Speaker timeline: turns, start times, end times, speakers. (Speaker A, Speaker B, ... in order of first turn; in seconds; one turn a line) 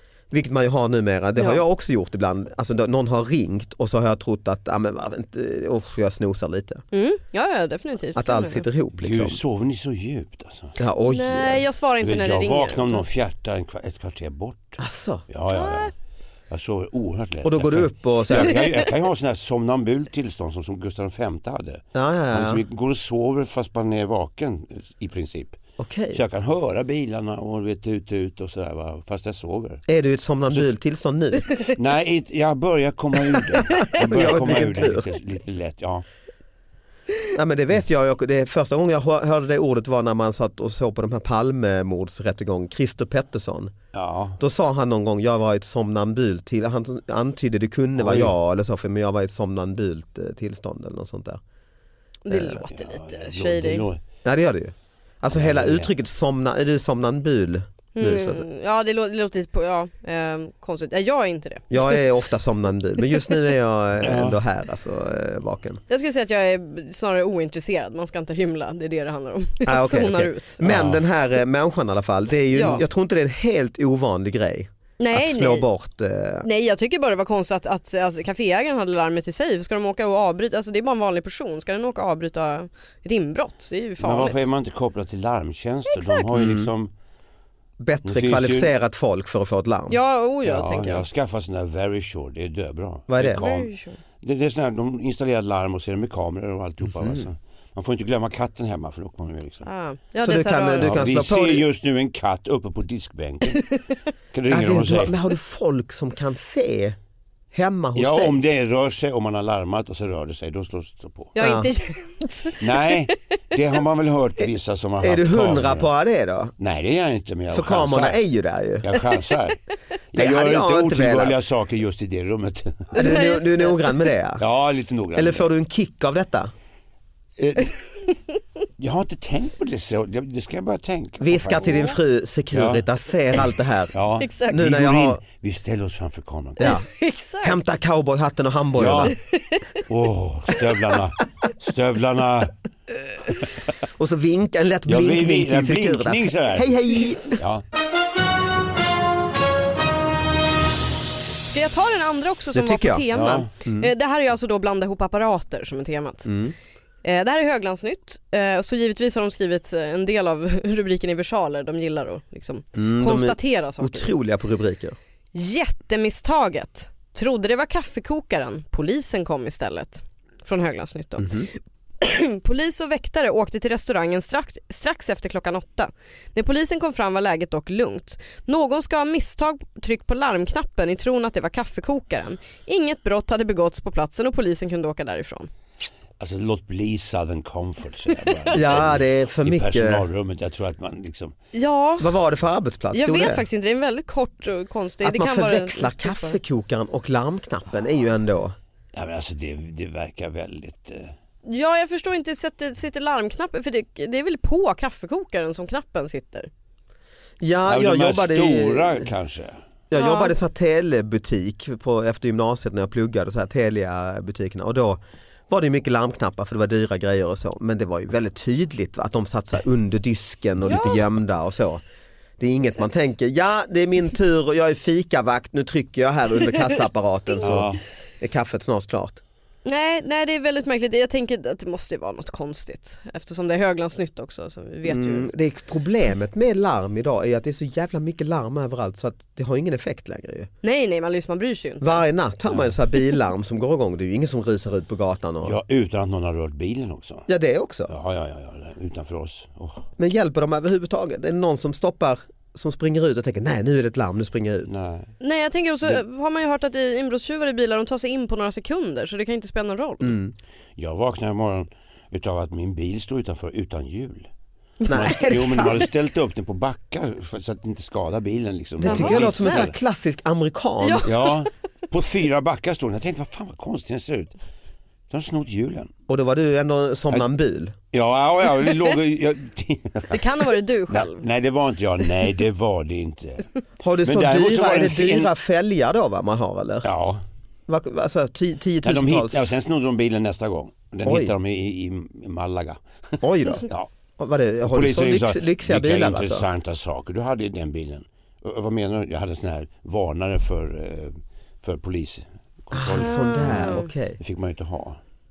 Speaker A: 0.3-6.8
Speaker B: 1.4-1.6
Speaker B: 6.9-8.7
Speaker A: 8.2-9.4
Speaker C: 9.0-10.8
Speaker A: 10.8-11.6
Speaker B: 11.1-13.0
Speaker C: 12.0-14.8
Speaker A: 14.8-15.2
Speaker C: 15.3-15.9
Speaker B: 15.5-15.9
Speaker C: 16.5-25.6
Speaker A: 17.4-18.6
Speaker B: 18.3-18.9
Speaker A: 21.9-22.6
Speaker A: 25.8-26.2
Speaker C: 26.1-29.8
Speaker A: 29.9-31.5
Speaker C: 31.8-36.0
Speaker A: 34.0-35.1
Speaker A: 37.3-43.7
Speaker C: 43.9-44.4
Speaker A: 44.4-51.4
Speaker C: 48.0-48.3
Speaker B: 52.2-53.9
Speaker C: 52.3-54.0
Speaker A: 54.2-58.5
Speaker C: 55.3-55.9
Speaker B: 58.0-62.0
Speaker A: 61.7-65.8
Speaker B: 63.1-63.3
Speaker C: 64.0-64.4
Speaker B: 65.9-70.6
Speaker A: 69.7-76.5
Speaker C: 70.6-71.0
Speaker B: 72.5-72.8
Speaker B: 75.0-75.7
Speaker B: 76.4-84.5
Speaker C: 84.0-86.9
Speaker A: 86.3-86.7
Speaker A: 87.8-90.0
Speaker C: 88.0-88.7
Speaker B: 89.9-91.1
Speaker C: 90.4-99.7
Speaker A: 93.1-93.4
Speaker B: 93.3-94.0
Speaker A: 97.0-97.3
Speaker B: 99.7-101.0
Speaker A: 100.2-101.6
Speaker C: 100.8-103.7
Speaker C: 104.3-105.2
Speaker A: 104.5-107.0
Speaker A: 107.5-108.4
Speaker C: 108.0-111.3
Speaker B: 111.4-113.1
Speaker A: 111.4-111.7
Speaker C: 112.6-115.9
Speaker A: 115.0-116.5
Speaker C: 116.6-118.2
Speaker A: 117.5-119.0
Speaker C: 118.8-119.6
Speaker C: 120.1-123.0
Speaker A: 120.1-121.4
Speaker B: 123.0-124.0
Speaker A: 123.0-124.4
Speaker C: 124.4-125.5
Speaker A: 125.2-126.5
Speaker C: 127.4-127.7
Speaker C: 128.8-132.0
Speaker A: 131.2-133.9
Speaker C: 132.5-132.8
Speaker C: 133.9-136.7
Speaker B: 134.2-134.6
Speaker A: 134.5-135.2
Speaker A: 136.6-136.9
Speaker B: 136.6-137.6
Speaker A: 137.4-139.2
Speaker C: 138.8-139.2
Speaker B: 139.3-139.8
Speaker C: 139.9-142.6
Speaker A: 143.9-147.4
Speaker C: 144.9-146.7
Speaker C: 147.3-147.6
Speaker B: 151.4-156.3
Speaker A: 152.5-153.9
Speaker C: 153.1-153.5
Speaker A: 156.3-156.6
Speaker B: 157.0-164.1
Speaker A: 162.8-165.0
Speaker B: 165.3-171.5
Speaker A: 171.2-171.5
Speaker B: 172.0-185.5
Speaker C: 186.2-191.3
Speaker B: 188.1-188.4
Speaker A: 188.5-190.1
Speaker B: 191.5-192.1
Speaker A: 192.0-193.4
Speaker B: 192.9-196.4
Speaker A: 195.0-198.6
Speaker C: 198.9-201.2
Speaker B: 201.4-206.5
Speaker A: 207.4-209.1
Speaker C: 207.7-209.6
Speaker A: 209.9-221.8
Speaker B: 209.9-210.4
Speaker B: 220.7-221.0
Speaker A: 222.4-229.2
Speaker C: 227.4-227.8
Speaker B: 229.7-235.3
Speaker A: 234.8-240.5
Speaker B: 240.6-242.1
Speaker A: 241.8-245.6
Speaker C: 242.5-242.8
Speaker C: 245.4-247.3
Speaker A: 247.3-247.9
Speaker C: 247.9-249.9
Speaker A: 250.0-254.7
Speaker C: 254.7-255.1
Speaker B: 255.2-260.2
Speaker A: 260.0-260.4
Speaker C: 260.8-264.3
Speaker A: 264.9-265.9
Speaker C: 264.9-269.8
Speaker A: 268.8-271.2
Speaker B: 268.8-269.7
Speaker B: 270.8-271.4
Speaker C: 271.1-274.4
Speaker C: 275.1-275.9
Speaker A: 276.1-277.8
Speaker C: 277.9-283.5
Speaker B: 280.1-281.2
Speaker A: 283.8-286.9
Speaker C: 284.0-285.3
Speaker C: 286.8-287.2
Speaker A: 287.7-289.5
Speaker C: 288.8-293.9
Speaker A: 291.1-291.3
Speaker A: 293.2-296.5
Speaker C: 294.7-305.0
Speaker A: 302.7-304.2
Speaker B: 303.0-303.9